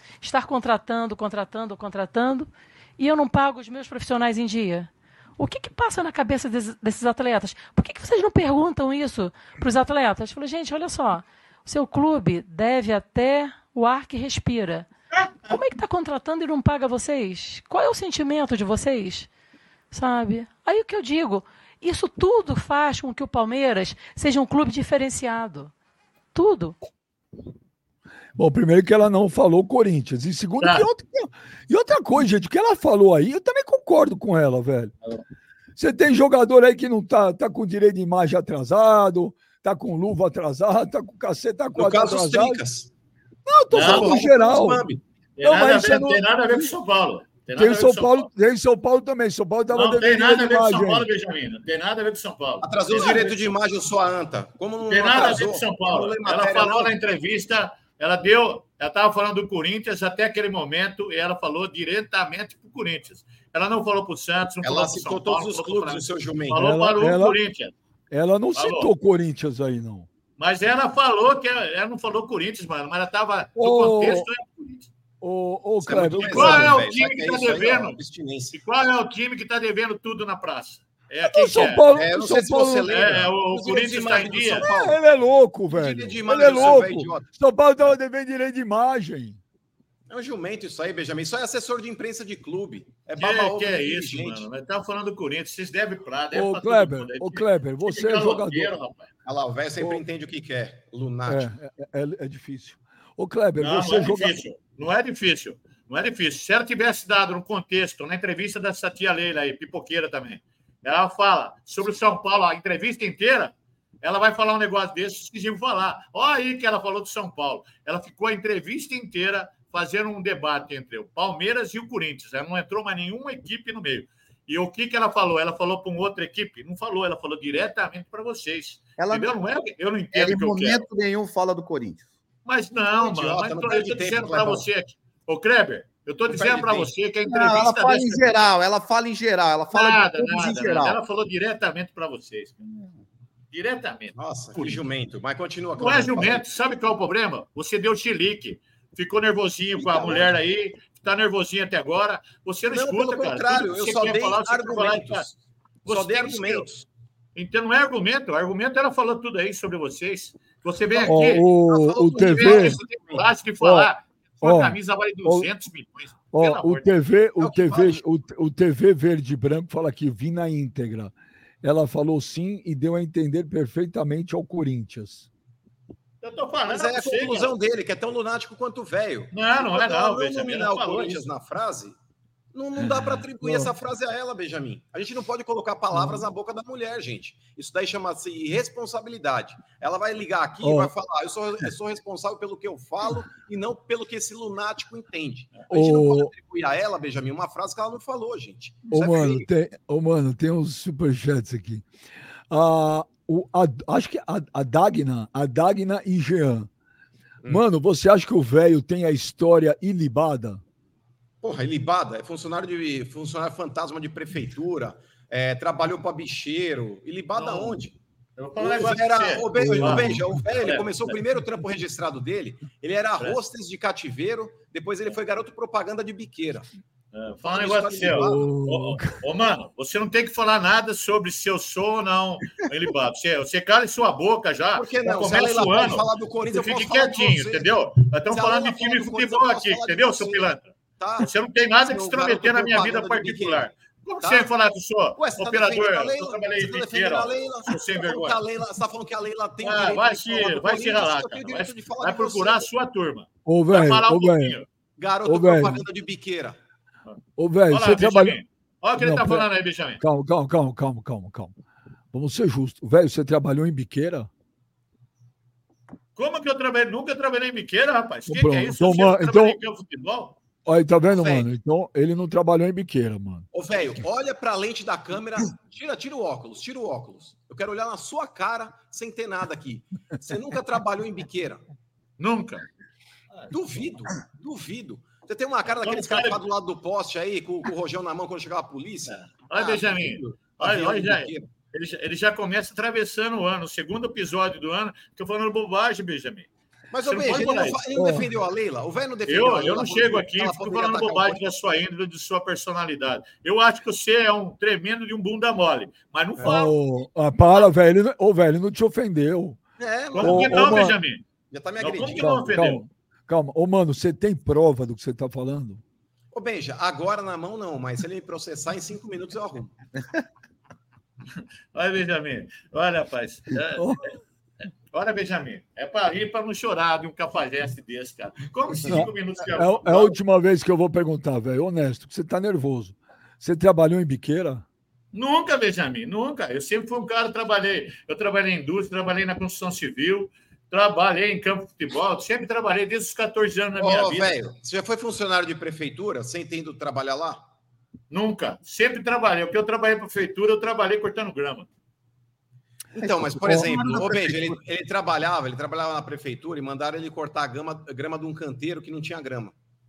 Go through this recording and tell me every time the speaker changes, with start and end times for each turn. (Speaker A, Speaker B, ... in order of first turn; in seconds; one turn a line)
Speaker A: 0.2-14.9
Speaker A: 15.4-19.3
Speaker A: 19.9-25.7
Speaker A: 26.3-26.8
Speaker B: 28.4-34.9
Speaker C: 30.6-30.9
Speaker B: 35.8-42.6
Speaker D: 41.7-42.9
Speaker B: 43.5-44.8
Speaker C: 43.7-44.1
Speaker D: 43.7-45.0
Speaker C: 45.4-48.3
Speaker B: 45.4-46.7
Speaker B: 47.5-51.1
Speaker C: 49.7-53.5
Speaker D: 52.6-56.9
Speaker C: 54.9-67.7
Speaker D: 64.6-66.6
Speaker B: 66.5-67.3
Speaker B: 68.1-70.1
Speaker C: 68.5-68.9
Speaker C: 70.4-74.9
Speaker B: 73.6-74.3
Speaker B: 75.2-76.8
Speaker D: 75.8-78.5
Speaker C: 76.2-78.0
Speaker C: 78.5-81.8
Speaker B: 81.2-83.2
Speaker D: 81.9-85.0
Speaker C: 82.9-84.7
Speaker B: 84.6-89.4
Speaker D: 85.7-87.3
Speaker D: 90.1-94.5
Speaker C: 93.2-99.1
Speaker B: 96.3-98.7
Speaker D: 99.2-101.5
Speaker B: 101.3-104.4
Speaker C: 103.6-130.8
Speaker E: 129.0-129.3
Speaker E: 130.1-132.0
Speaker C: 132.4-138.2
Speaker D: 133.0-134.6
Speaker D: 136.3-136.9
Speaker E: 137.3-141.0
Speaker C: 139.7-142.6
Speaker C: 143.5-144.8
Speaker D: 144.1-146.4
Speaker C: 145.8-155.3
Speaker D: 149.8-150.3
Speaker D: 152.7-156.9
Speaker C: 155.8-156.7
Speaker C: 157.3-161.5
Speaker D: 160.9-163.2
Speaker B: 161.1-162.8
Speaker C: 162.2-166.9
Speaker B: 163.6-163.9
Speaker B: 164.4-165.5
Speaker B: 166.3-175.3
Speaker D: 167.4-168.0
Speaker C: 176.2-177.5
Speaker D: 176.7-181.9
Speaker C: 179.3-181.2
Speaker D: 182.5-199.4
Speaker B: 182.8-183.7
Speaker B: 190.6-190.9
Speaker B: 195.7-196.3
Speaker B: 198.9-201.8
Speaker B: 202.5-206.7
Speaker B: 207.5-210.6
Speaker D: 211.4-217.9
Speaker C: 217.3-217.8
Speaker C: 218.4-221.2
Speaker D: 218.6-226.7
Speaker B: 219.6-220.2
Speaker C: 227.1-248.4
Speaker D: 227.4-228.5
Speaker B: 228.2-229.1
Speaker D: 234.7-237.7
Speaker D: 238.3-241.3
Speaker D: 241.8-244.5
Speaker D: 245.2-252.7
Speaker C: 249.6-254.7
Speaker B: 253.4-254.6
Speaker D: 255.0-256.6
Speaker B: 255.2-255.8
Speaker B: 257.4-258.4
Speaker C: 257.7-260.0
Speaker B: 259.0-259.5
Speaker B: 260.0-261.5
Speaker B: 262.1-264.3
Speaker C: 266.1-270.4
Speaker B: 268.3-269.6
Speaker B: 270.6-273.5
Speaker D: 271.1-271.4
Speaker D: 273.5-281.6
Speaker C: 282.2-282.7
Speaker D: 283.5-291.5
Speaker C: 285.7-286.4
Speaker C: 289.1-296.5
Speaker D: 296.9-301.4
Speaker C: 297.0-297.8
Speaker B: 297.9-298.3
Speaker C: 299.3-306.7
Speaker D: 306.4-306.6
Speaker B: 306.4-309.6
Speaker D: 309.8-310.9
Speaker C: 310.1-311.2
Speaker B: 310.2-311.0
Speaker D: 311.5-312.6
Speaker C: 311.8-312.8
Speaker B: 312.2-315.8
Speaker D: 316.3-319.7
Speaker C: 321.7-323.9
Speaker B: 323.8-324.1
Speaker C: 324.9-330.1
Speaker B: 328.9-334.6
Speaker C: 335.1-344.3
Speaker D: 343.8-347.4
Speaker C: 348.1-351.7
Speaker D: 352.9-359.5
Speaker E: 353.0-353.8